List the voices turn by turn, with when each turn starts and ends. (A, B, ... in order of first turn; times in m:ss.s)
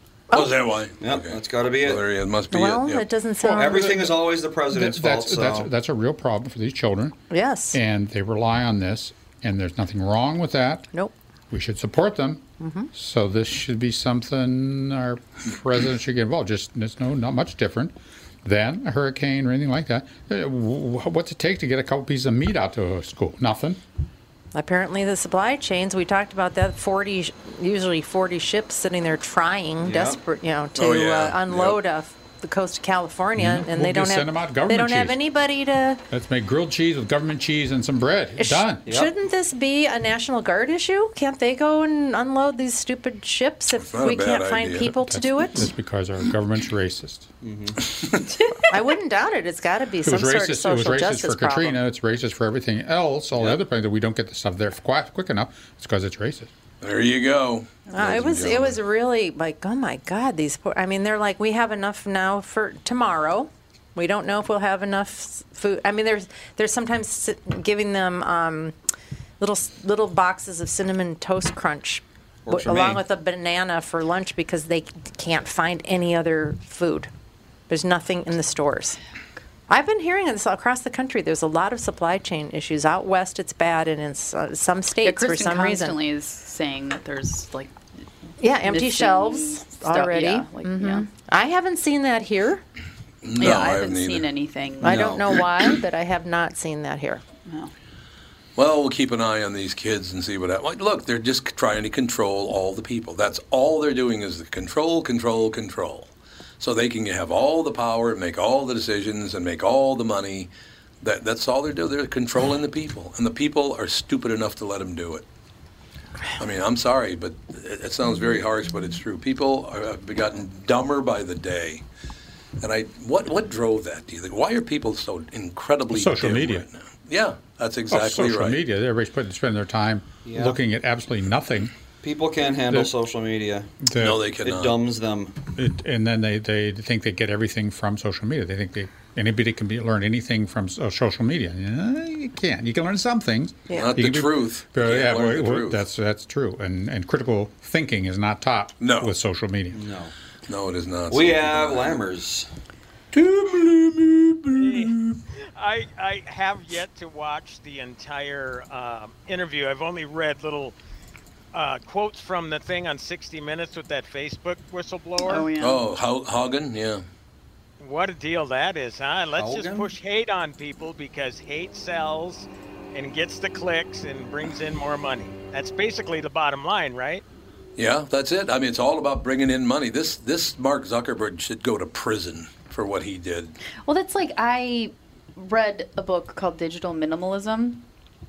0:00.3-0:00.6 A
0:00.3-0:03.1 B
0:01.0-0:02.1 C
0:02.5-0:04.2 A
0:03.5-0:05.7 C
0:04.7-0:07.2 D
0:07.3-0:07.8 A
0:07.7-0:10.9 D
0:11.5-0:12.4 D
0:12.6-0:12.9 A
0:12.9-0:17.9 D
0:18.4-0:23.8 D
0:24.5-0:36.0 A
0:29.8-0:30.2 C
0:30.8-0:31.8 B
0:33.4-0:35.2 D
0:36.1-0:38.8 D
0:38.4-0:45.7 A
0:38.9-0:39.1 C
0:43.8-0:44.9 B
0:44.8-0:47.3 D
0:47.4-0:47.8 C
0:48.5-0:51.8 A
0:50.0-0:56.5 D
0:56.8-0:58.8 B
0:57.9-1:08.8 A
1:09.4-1:17.1 A
1:12.5-1:13.0 C
1:17.7-1:19.0 A
1:19.7-1:26.0 A
1:25.0-1:31.1 E
1:28.4-1:32.6 A
1:33.2-1:34.3 B
1:33.4-1:35.1 E
1:34.8-1:37.2 A
1:34.8-1:35.3 C
1:37.5-1:37.7 E
1:38.6-1:50.5 B
1:51.0-1:55.2 B
1:56.4-2:01.8 B
2:02.6-2:08.6 B
2:05.9-2:06.7 D
2:07.9-2:11.7 D
2:10.3-2:10.6 C
2:12.0-2:13.7 C
2:13.8-2:14.2 D
2:14.0-2:14.8 B
2:14.4-2:15.4 C
2:15.6-2:29.8 D
2:23.7-2:24.0 A
2:23.7-2:25.8 B
2:28.8-2:29.1 B
2:29.7-2:30.1 C
2:30.5-2:32.0 B
2:31.1-2:32.5 C
2:33.1-2:35.2 B
2:34.5-2:34.9 F
2:35.6-2:40.8 F
2:41.5-2:45.5 F
2:45.2-2:45.8 E
2:45.6-2:47.0 B
2:47.8-2:57.2 F
2:49.4-2:49.9 C
2:57.8-3:03.6 B
3:03.8-3:07.8 E